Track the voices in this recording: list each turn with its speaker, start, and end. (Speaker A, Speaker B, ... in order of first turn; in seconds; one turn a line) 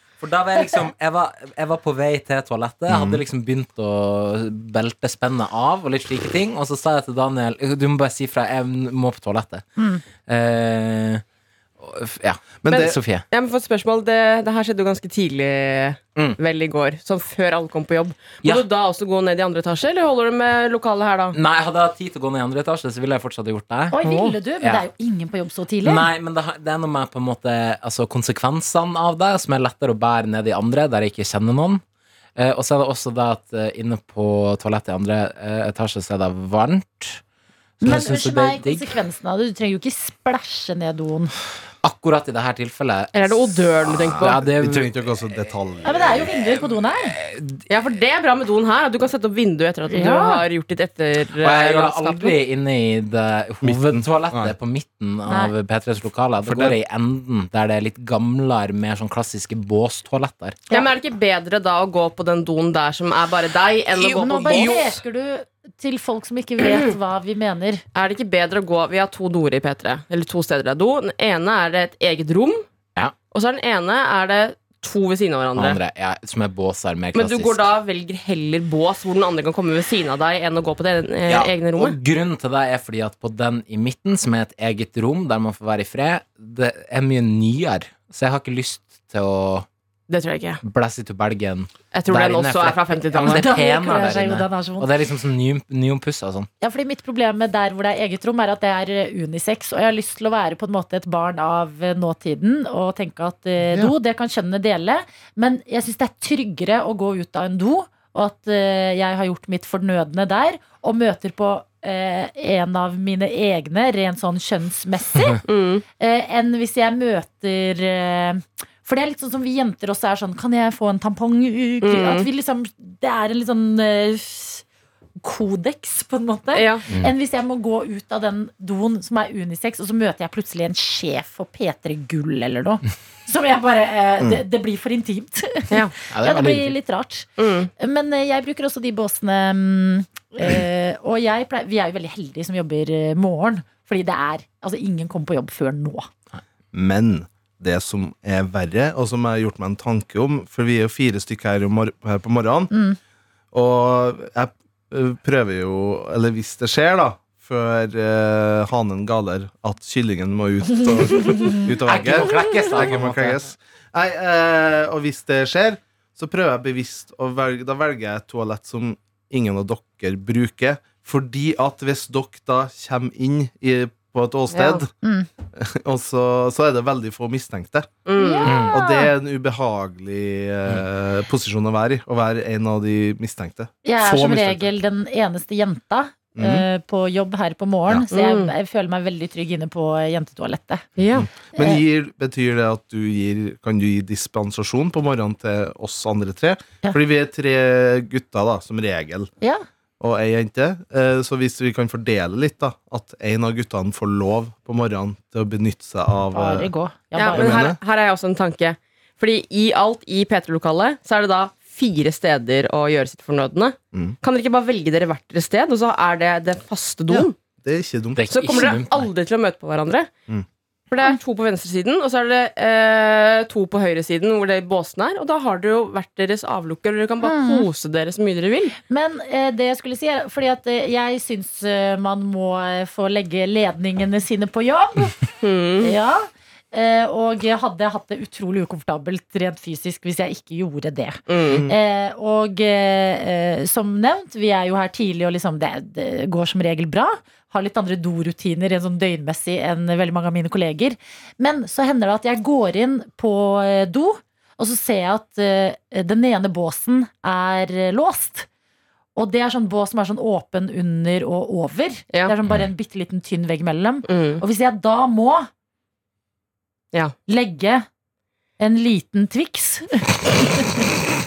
Speaker A: 0.2-9.7
Speaker B: 2.9-3.2
Speaker C: 9.8-10.0
Speaker A: 10.2-11.2
Speaker A: 11.8-13.2
Speaker B: 12.6-13.0
Speaker D: 12.7-21.4
Speaker A: 21.3-23.9
Speaker C: 23.9-26.1
Speaker D: 24.0-24.4
Speaker A: 25.8-31.8
Speaker A: 32.4-37.2
Speaker A: 37.8-38.9
Speaker C: 37.8-41.3
Speaker A: 41.8-45.5
Speaker D: 43.1-44.4
Speaker B: 43.8-46.3
Speaker C: 45.8-47.2
Speaker A: 46.9-47.6
Speaker D: 47.7-52.4
Speaker C: 49.9-50.4
Speaker A: 51.4-60.6
Speaker B: 53.6-54.5
Speaker C: 55.3-55.5
Speaker B: 56.4-56.8
Speaker D: 60.7-65.0
Speaker A: 64.0-64.7
Speaker C: 64.1-67.8
Speaker D: 66.6-66.9
Speaker D: 67.9-72.7
Speaker D: 73.3-75.8
Speaker A: 75.5-77.7
Speaker D: 77.1-82.0
Speaker A: 81.3-89.7
Speaker D: 90.1-90.6
Speaker A: 90.6-96.5
Speaker D: 91.9-93.5
Speaker C: 93.1-94.9
Speaker C: 96.6-115.4
Speaker D: 115.5-115.8
Speaker C: 116.0-124.6
Speaker D: 121.8-122.3
Speaker C: 125.2-146.1
Speaker D: 126.5-126.8
Speaker A: 136.1-136.7
Speaker D: 137.4-137.7
Speaker B: 146.7-152.7
Speaker C: 152.7-153.0
Speaker B: 153.5-174.9
Speaker C: 161.3-161.6
Speaker A: 161.8-163.4
Speaker D: 174.5-174.8
Speaker C: 175.0-175.3
Speaker B: 175.5-177.9
Speaker D: 178.1-178.6
Speaker C: 178.2-179.1
Speaker A: 178.4-178.7
Speaker B: 178.6-184.7
Speaker C: 183.8-190.8
Speaker B: 186.3-186.7
Speaker D: 188.1-188.5
Speaker D: 191.0-191.3
Speaker B: 191.1-199.3
Speaker C: 191.6-191.8
Speaker B: 200.0-206.7
Speaker C: 206.3-207.7
Speaker D: 207.2-217.3
Speaker B: 207.3-207.8
Speaker B: 217.1-218.3
Speaker A: 218.2-219.1
Speaker D: 218.3-220.1
Speaker D: 220.9-228.7
Speaker C: 227.2-227.7
Speaker C: 228.9-258.5
Speaker D: 235.4-235.9
Speaker D: 241.3-241.7
Speaker C: 259.1-265.5
Speaker D: 264.1-264.4
Speaker C: 267.3-267.9
Speaker C: 268.6-270.9